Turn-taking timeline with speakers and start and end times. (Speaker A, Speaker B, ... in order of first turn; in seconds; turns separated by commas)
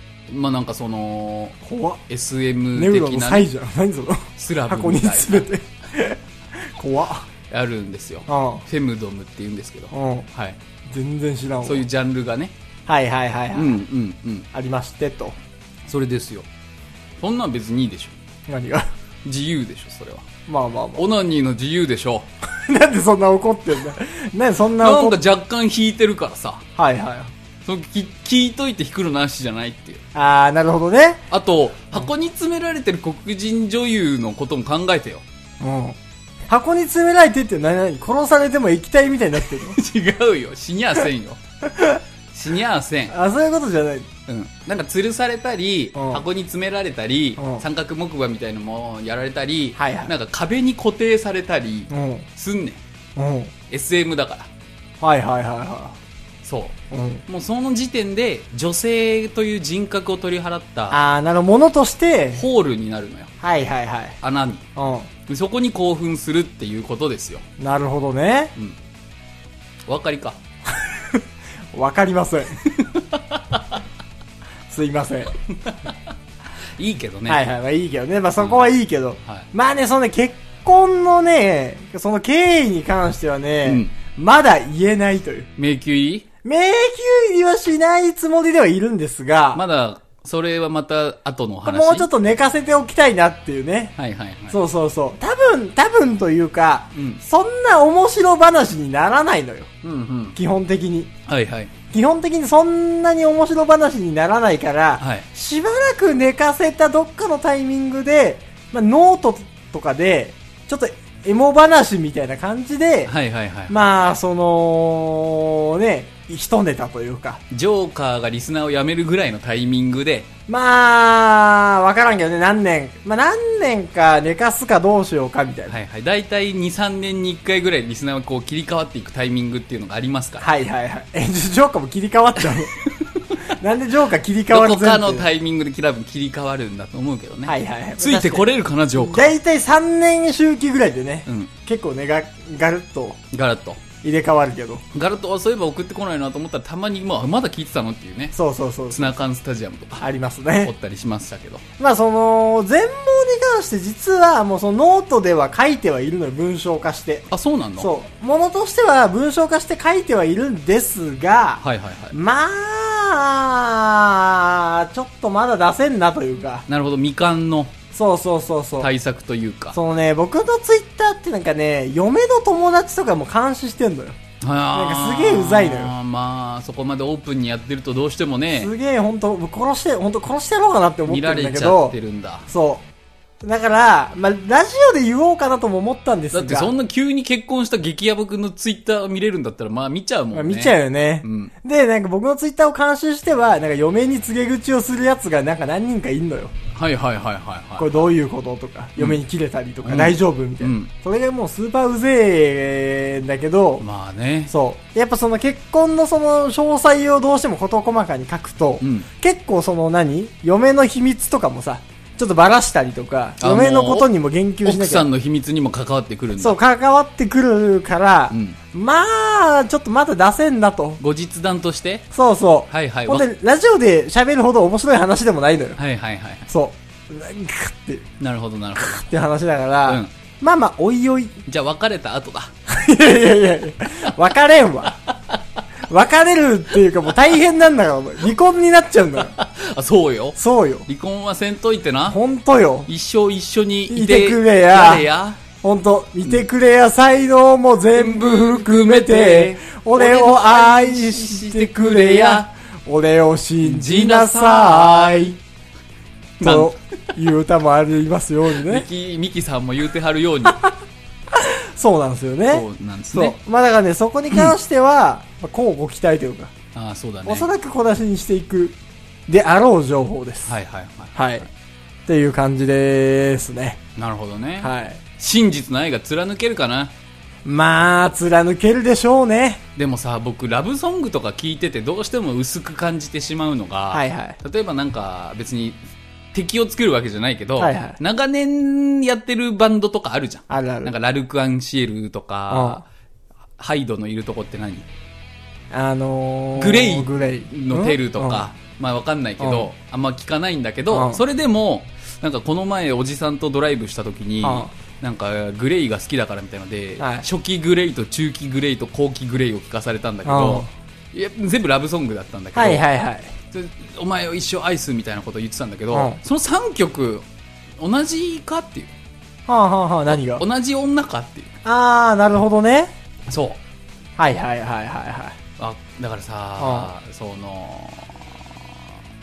Speaker A: 0.3-1.6, Speaker B: 1.6-2.0, Speaker A: 2.1-3.5, Speaker B: 2.8-7.3, Speaker A: 4.4-5.5, Speaker A: 7.5-10.6, Speaker B: 8.3-8.6, Speaker B: 9.9-10.3, Speaker B: 10.9-11.8, Speaker A: 11.6-12.5, Speaker B: 12.9-13.8, Speaker A: 13.5-14.5, Speaker B: 14.5-15.4, Speaker A: 15.9-16.5, Speaker A: 17.2-18.2, Speaker B: 18.5-18.9, Speaker A: 19.2-20.3, Speaker B: 20.5-21.0, Speaker A: 20.9-22.3, Speaker B: 22.5-25.2, Speaker A: 24.8-26.6, Speaker B: 26.8-27.3, Speaker A: 27.6-30.0, Speaker B: 30.1-31.2, Speaker A: 31.3-35.2, Speaker B: 35.6-36.0, Speaker B: 36.5-39.8, Speaker A: 39.7-41.4, Speaker B: 41.6-42.0, Speaker A: 42.3-43.1, Speaker B: 43.1-44.1, Speaker A: 44.3-52.8, Speaker B: 46.0-46.2, Speaker B: 47.4-47.6, Speaker B: 49.8-50.1, Speaker B: 51.9-52.3, Speaker B: 53.2-53.5, Speaker A: 53.7-54.5, Speaker B: 55.0-56.0, Speaker A: 56.4-56.8, Speaker B: 56.9-57.2, Speaker A: 57.3-61.0, Speaker B: 60.9-62.4, Speaker A: 62.3-63.3, Speaker B: 63.4-64.2, Speaker A: 64.2-64.7, Speaker B: 64.8-65.1, Speaker A: 65.3-67.5, Speaker B: 67.6-68.5, Speaker A: 69.9-70.4, Speaker B: 70.7-71.2, Speaker B: 71.7-72.6, Speaker A: 72.7-73.8, Speaker B: 74.7-75.3, Speaker A: 75.5-75.9, Speaker A: 76.8-77.4, Speaker B: 77.3-85.5, Speaker A: 78.4-78.7, Speaker A: 83.7-83.9, Speaker A: 85.6-86.2, Speaker B: 86.4-89.6, Speaker A: 89.5-92.1, Speaker B: 91.7-94.0, Speaker A: 94.0-94.6, Speaker B: 94.5-99.7, Speaker A: 97.0-97.2, Speaker A: 99.8-100.4, Speaker B: 100.3-101.1, Speaker A: 101.3-101.7, Speaker B: 101.9-113.1, Speaker A: 105.0-105.3, Speaker A: 113.1-113.8, Speaker B: 113.7-117.4, Speaker A: 117.5-120.3, Speaker B: 120.5-125.8, Speaker A: 125.7-130.5, Speaker B: 130.4-132.7, Speaker A: 132.8-133.5, Speaker B: 133.6-135.3, Speaker A: 134.5-139.3, Speaker B: 137.5-143.2, Speaker A: 141.3-141.5, Speaker A: 143.3-143.8, Speaker B: 144.0-144.8, Speaker A: 144.9-148.3, Speaker B: 148.3-149.2, Speaker A: 148.9-150.1, Speaker B: 150.0-150.7, Speaker A: 150.6-151.6, Speaker B: 151.8-157.3, Speaker A: 157.3-157.9, Speaker B: 157.8-166.7, Speaker A: 161.6-162.2, Speaker A: 166.7-167.8, Speaker B: 167.9-168.9, Speaker A: 168.8-169.8, Speaker B: 169.7-174.2, Speaker A: 174.4-178.7, Speaker B: 174.7-175.9, Speaker B: 178.5-181.9, Speaker A: 181.1-182.5, Speaker B: 182.5-182.8, Speaker B: 183.4-186.7, Speaker A: 186.3-191.5, Speaker B: 190.3-196.5, Speaker A: 196.7-198.1, Speaker B: 197.8-203.8, Speaker A: 199.8-200.9, Speaker A: 203.8-204.5, Speaker B: 204.5-215.1, Speaker A: 208.8-209.1, Speaker A: 213.4-214.1, Speaker A: 214.6-216.6, Speaker B: 216.4-221.0, Speaker A: 218.3-218.6, Speaker A: 221.0-222.1, Speaker B: 222.1-225.8, Speaker A: 222.7-223.3, Speaker A: 225.8-226.5, Speaker B: 226.5-228.1, Speaker A: 228.2-229.1, Speaker B: 228.8-231.4, Speaker A: 231.5-232.5, Speaker B: 232.7-235.0, Speaker B: 235.9-239.3, Speaker A: 239.2-242.2, Speaker B: 240.4-240.9, Speaker B: 242.1-242.9, Speaker A: 242.9-245.4, Speaker B: 243.9-245.1, Speaker B: 245.6-255.4, Speaker A: 247.9-252.5, Speaker A: 253.6-255.3, Speaker A: 256.4-256.8, Speaker B: 256.4-258.9, Speaker A: 258.6-260.6, Speaker B: 261.3-266.5, Speaker A: 262.5-263.4, Speaker A: 266.8-267.5, Speaker B: 267.3-268.8, Speaker B: 269.3-270.5, Speaker A: 270.5-271.2, Speaker B: 271.1-271.5, Speaker B: 272.1-273.8, Speaker A: 274.0-276.9, Speaker B: 274.6-275.0, Speaker B: 277.4-279.6, Speaker A: 279.8-285.8, Speaker B: 283.9-284.4, Speaker A: 286.3-292.9, Speaker B: 287.6-288.0, Speaker B: 290.5-290.9, Speaker B: 292.5-292.8, Speaker A: 293.6-294.9, Speaker B: 295.7-298.4, Speaker A: 296.6-312.9, Speaker B: 299.4-299.7, Speaker B: 300.9-301.2, Speaker B: 304.4-304.7, Speaker B: 307.0-307.2, Speaker B: 310.2-310.7, Speaker B: 312.6-313.3, Speaker A: 313.5-317.2, Speaker B: 315.9-316.2, Speaker A: 317.8-318.9, Speaker B: 319.5-320.4, Speaker A: 320.1-321.5, Speaker B: 321.6-322.9, Speaker A: 323.3-323.6, Speaker B: 324.2-325.4, Speaker A: 325.6-328.5, Speaker B: 326.6-326.9